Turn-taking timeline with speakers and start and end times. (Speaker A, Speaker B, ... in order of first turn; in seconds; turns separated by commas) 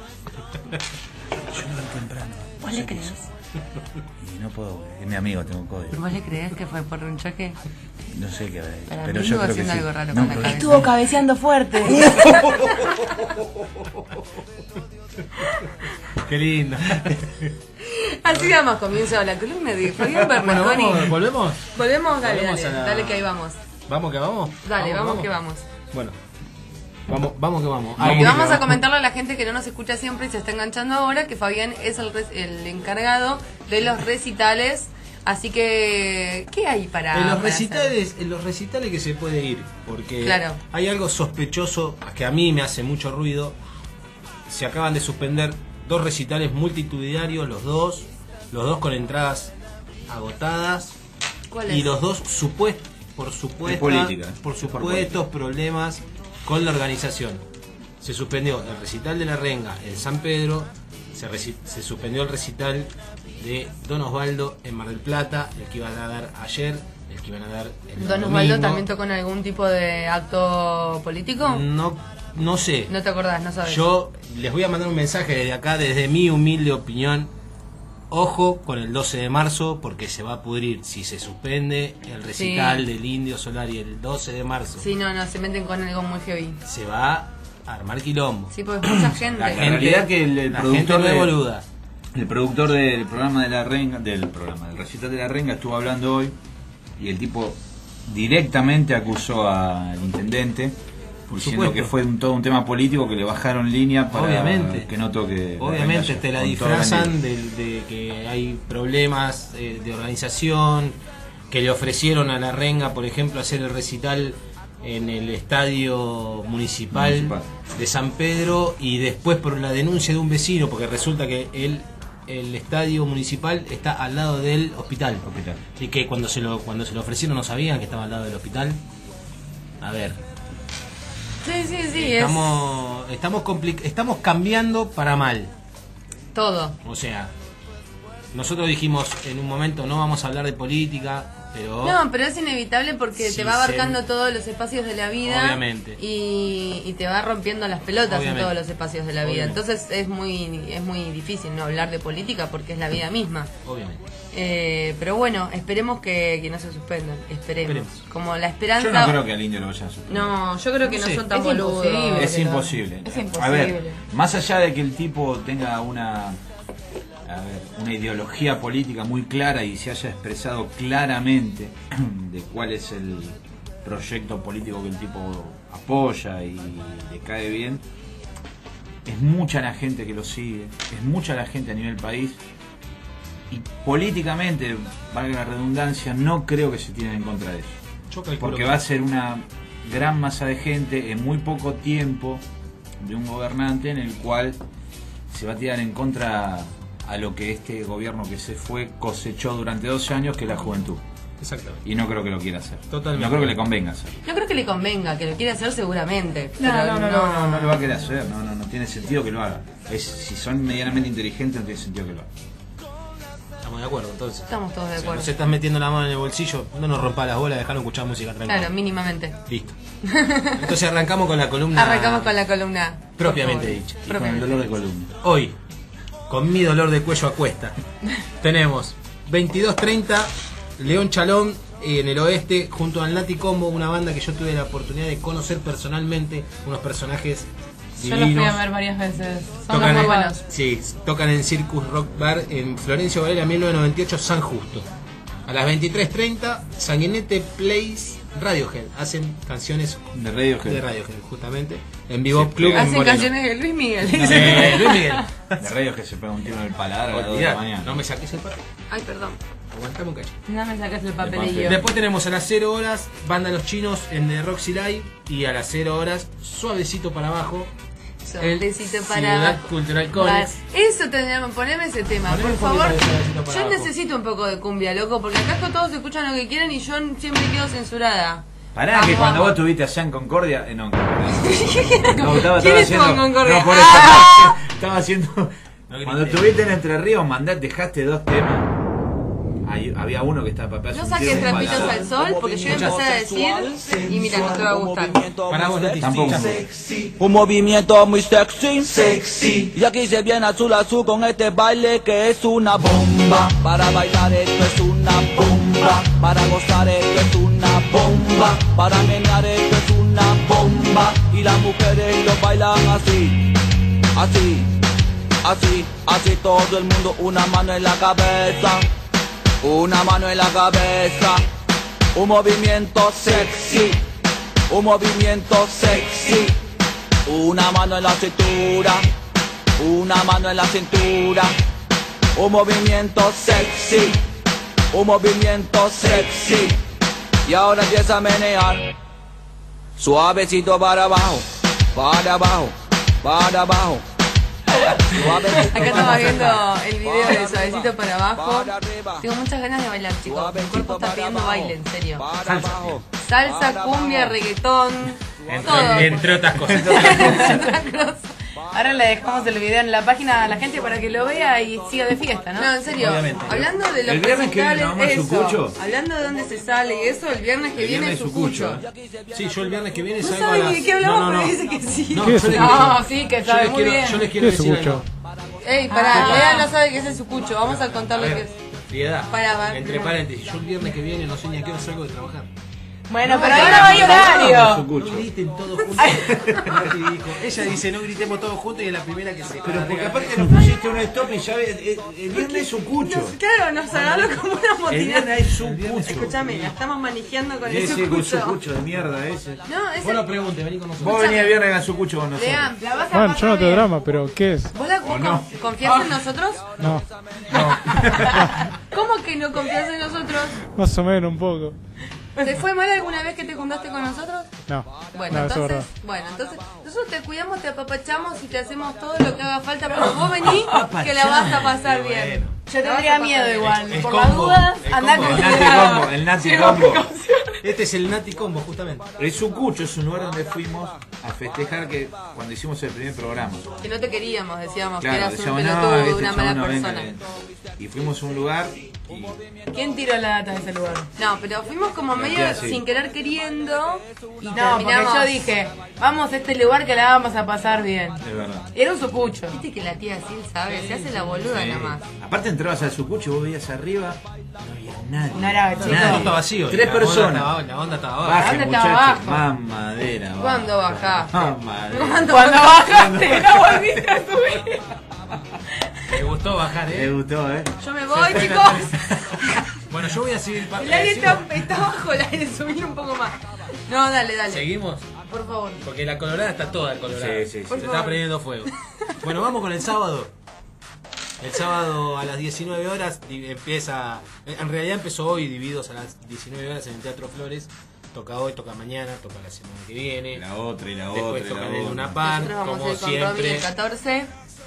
Speaker A: 1.4-3.2, Speaker B: 2.6-3.2, Speaker A: 4.2-6.1, Speaker B: 5.9-7.6, Speaker A: 8.1-10.9, Speaker B: 8.9-10.8, Speaker C: 10.4-12.1, Speaker A: 12.0-12.4, Speaker D: 16.2-17.5, Speaker B: 17.8-21.2, Speaker D: 20.2-23.3, Speaker B: 21.7-23.6, Speaker D: 23.9-25.3, Speaker B: 24.6-25.6, Speaker D: 27.1-28.8, Speaker A: 28.0-28.5, Speaker B: 28.0-37.9, Speaker D: 37.1-43.5, Speaker B: 40.2-40.6, Speaker D: 44.5-49.5, Speaker D: 50.1-50.9, Speaker B: 51.5-51.9, Speaker D: 51.7-57.4, Speaker A: 53.6-55.2, Speaker D: 58.0-68.8, Speaker B: 68.0-71.6, Speaker D: 71.4-72.9, Speaker B: 72.9-73.8, Speaker D: 73.6-77.3, Speaker D: 78.1-84.8, Speaker B: 82.3-82.8, Speaker B: 84.8-86.6, Speaker D: 86.6-88.5, Speaker B: 88.5-89.8, Speaker A: 89.3-91.4, Speaker D: 89.5-91.6, Speaker A: 92.1-96.4, Speaker A: 97.0-100.8, Speaker D: 101.3-101.9, Speaker A: 101.3-107.1, Speaker D: 104.1-104.9, Speaker D: 105.6-111.0, Speaker D: 111.5-125.2, Speaker A: 116.9-117.5, Speaker A: 125.2-125.6, Speaker D: 125.8-128.8, Speaker D: 129.8-130.2, Speaker B: 131.4-132.6, Speaker D: 131.9-135.5, Speaker B: 136.3-136.8, Speaker D: 136.8-137.3, Speaker D: 138.3-142.0, Speaker B: 141.8-153.5, Speaker D: 143.2-144.0, Speaker D: 145.2-146.0, Speaker D: 148.1-148.5, Speaker D: 149.2-149.6, Speaker D: 153.6-154.0, Speaker B: 154.3-159.2, Speaker D: 157.6-158.0, Speaker A: 158.8-160.4, Speaker B: 160.1-162.3, Speaker D: 160.9-161.3, Speaker C: 161.3-164.0, Speaker A: 162.1-166.4, Speaker A: 167.2-177.8, Speaker A: 179.1-182.4, Speaker A: 183.5-187.8, Speaker D: 188.1-188.8, Speaker A: 188.4-192.4, Speaker A: 193.0-194.6, Speaker A: 195.3-201.0, Speaker D: 201.4-201.8, Speaker A: 201.8-204.2, Speaker D: 202.9-203.6, Speaker B: 204.2-207.7, Speaker C: 206.6-207.5, Speaker A: 206.6-212.3, Speaker D: 213.6-218.7, Speaker B: 214.5-215.3, Speaker B: 218.4-219.4, Speaker D: 219.5-219.8, Speaker B: 220.0-220.7, Speaker D: 220.6-222.4, Speaker B: 221.7-224.6, Speaker D: 223.2-224.1, Speaker A: 224.1-225.2, Speaker D: 225.2-225.5, Speaker D: 226.3-227.7, Speaker D: 228.4-238.7, Speaker C: 238.0-240.4, Speaker D: 239.7-244.9, Speaker B: 239.8-240.4, Speaker D: 245.5-250.1, Speaker A: 250.1-250.8, Speaker D: 250.6-253.3, Speaker A: 252.3-252.9, Speaker B: 252.7-255.2, Speaker D: 254.1-255.7, Speaker A: 254.1-258.0, Speaker D: 257.1-258.6, Speaker B: 258.9-259.4, Speaker D: 259.7-260.4, Speaker B: 260.5-261.8, Speaker A: 261.2-261.9, Speaker D: 261.6-267.7, Speaker B: 268.2-279.6, Speaker D: 268.4-270.6, Speaker D: 272.2-273.9, Speaker A: 278.7-288.8, Speaker B: 281.4-284.6, Speaker D: 285.9-286.5, Speaker A: 289.6-292.1, Speaker B: 290.9-295.2, Speaker E: 291.4-313.5, Speaker D: 295.5-296.6, Speaker A: 296.0-296.6, Speaker E: 314.1-314.7, Speaker E: 315.4-318.9, Speaker E: 319.6-321.4, Speaker E: 322.1-324.0, Speaker E: 324.7-326.6, Speaker E: 327.2-329.1, Speaker E: 329.8-331.5, Speaker E: 332.4-334.2, Speaker E: 334.9-336.8, Speaker E: 337.4-338.9, Speaker E: 340.0-344.0, Speaker E: 345.0-349.2, Speaker B: 345.6-352.2, Speaker E: 350.2-354.4, Speaker D: 352.4-352.9, Speaker B: 353.2-358.3, Speaker E: 355.5-355.7, Speaker D: 355.5-357.4, Speaker A: 356.6-357.4, Speaker C: 357.4-357.7, Speaker C: 358.7-362.8, Speaker B: 362.6-368.8, Speaker D: 363.0-363.6, Speaker A: 364.1-365.8, Speaker A: 367.8-368.9, Speaker D: 369.3-371.6, Speaker B: 370.2-373.0, Speaker D: 372.1-375.0, Speaker F: 372.2-372.8, Speaker C: 372.5-374.3, Speaker F: 374.3-375.0, Speaker B: 375.6-378.6, Speaker C: 375.9-376.7, Speaker D: 376.1-376.7, Speaker D: 377.6-382.5, Speaker B: 379.3-380.2, Speaker C: 383.1-384.9, Speaker D: 383.3-390.6, Speaker B: 383.4-384.1, Speaker A: 383.4-385.3, Speaker C: 386.0-386.6, Speaker A: 386.3-386.9, Speaker A: 389.6-393.4, Speaker B: 392.3-398.6, Speaker A: 394.9-396.4, Speaker D: 395.6-396.7, Speaker A: 397.6-399.6, Speaker B: 399.6-400.4, Speaker D: 400.0-401.3, Speaker A: 401.0-402.8, Speaker B: 401.0-401.6, Speaker B: 402.4-402.8, Speaker C: 402.8-403.9, Speaker F: 403.1-404.7, Speaker B: 404.7-406.8, Speaker A: 405.0-405.5, Speaker F: 406.8-407.1, Speaker A: 407.5-408.5, Speaker B: 408.7-410.6, Speaker F: 410.7-411.8, Speaker B: 412.4-414.5, Speaker F: 414.7-415.9, Speaker B: 415.1-424.0, Speaker D: 420.5-422.6, Speaker C: 422.7-427.6, Speaker D: 423.6-426.1, Speaker A: 425.2-427.1, Speaker D: 427.6-429.1, Speaker A: 429.2-433.8, Speaker B: 433.8-437.1, Speaker A: 435.0-439.4, Speaker C: 439.7-441.1, Speaker B: 441.1-445.5, Speaker A: 442.1-442.8, Speaker C: 444.5-448.2, Speaker A: 448.2-448.7, Speaker C: 448.7-449.6, Speaker B: 449.5-452.0, Speaker D: 450.9-451.2, Speaker A: 451.5-454.2, Speaker A: 454.8-457.6, Speaker C: 455.3-456.4, Speaker D: 455.8-458.6, Speaker A: 458.2-464.0, Speaker C: 458.4-459.4, Speaker B: 460.4-463.8, Speaker C: 462.3-464.8, Speaker D: 466.1-467.1, Speaker A: 466.9-467.8, Speaker B: 467.8-469.3, Speaker D: 468.1-469.1, Speaker D: 469.8-471.5, Speaker B: 470.8-474.7, Speaker D: 474.5-475.1, Speaker B: 475.3-475.8, Speaker D: 475.8-480.3, Speaker A: 477.1-478.0, Speaker B: 477.7-478.7, Speaker D: 481.4-490.4, Speaker A: 490.3-492.2, Speaker D: 491.1-493.7, Speaker B: 492.2-494.3